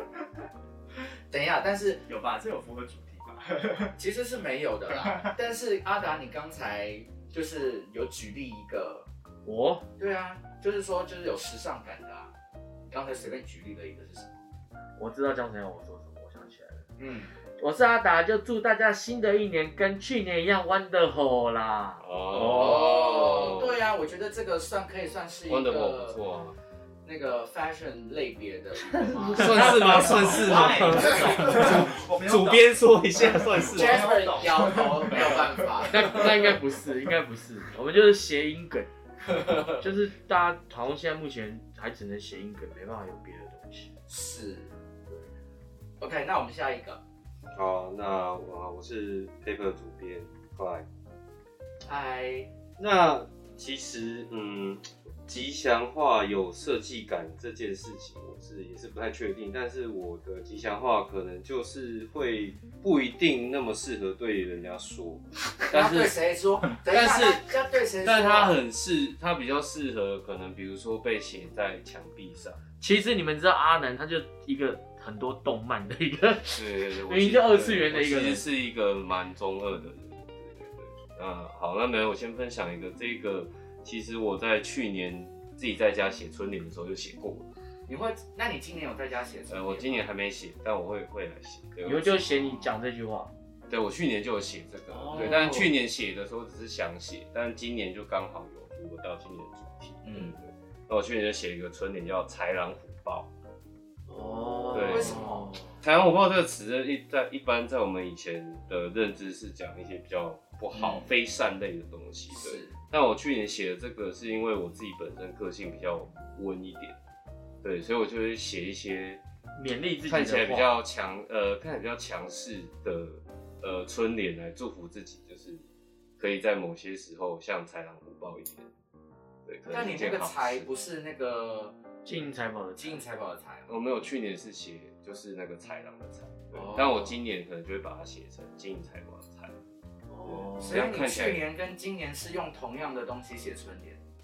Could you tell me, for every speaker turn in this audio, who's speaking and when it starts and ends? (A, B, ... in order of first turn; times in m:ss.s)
0:01.3-0:02.1 A
0:02.1-0:04.0 B
0:04.0-0:09.1 A
0:09.4-0:09.8 C
0:10.0-0:12.3 A
0:12.9-0:14.4 A
0:15.0-0:16.8 C
0:17.0-0:17.3 A
0:17.6-0:22.6 C
0:22.0-0:23.8 D
0:22.3-0:26.2 A
0:25.5-0:26.6 D
0:27.0-0:29.9 A
0:28.8-0:35.9 B
0:29.4-0:34.4 D
0:29.4-0:30.8 C
0:30.9-0:31.7 A
0:33.7-0:36.4 A
0:35.8-0:38.9 C
0:39.6-0:43.9 C
0:44.1-0:45.2 A
0:46.0-0:47.0 A
0:47.6-0:50.8 D
0:51.8-0:52.5 A
0:52.8-1:06.1 D
1:05.7-1:08.6 A
1:06.8-1:07.5 D
1:08.0-1:12.6 D
1:12.8-1:18.4 C
1:16.5-1:27.5 D
1:27.9-1:30.1 A
1:29.5-1:32.7 D
1:31.8-1:33.3 C
1:33.7-1:43.3 D
1:34.9-1:35.7 C
1:40.0-1:40.3 A
1:44.1-1:45.6 C
1:44.7-1:45.6 A
1:44.7-1:45.2 D
1:45.8-1:57.0 D
1:50.7-1:51.1 A
1:52.3-1:52.8 A
1:57.6-1:59.2 D
1:59.6-2:00.7 C
2:00.1-2:05.6 D
2:06.2-2:08.7 D
2:09.4-2:10.7 D
2:09.7-2:11.8 A
2:12.0-2:13.0 C
2:12.8-2:13.7 A
2:13.7-2:19.6 D
2:16.5-2:17.2 A
2:20.1-2:20.9 C
2:20.2-2:21.4 D
2:20.6-2:24.0 A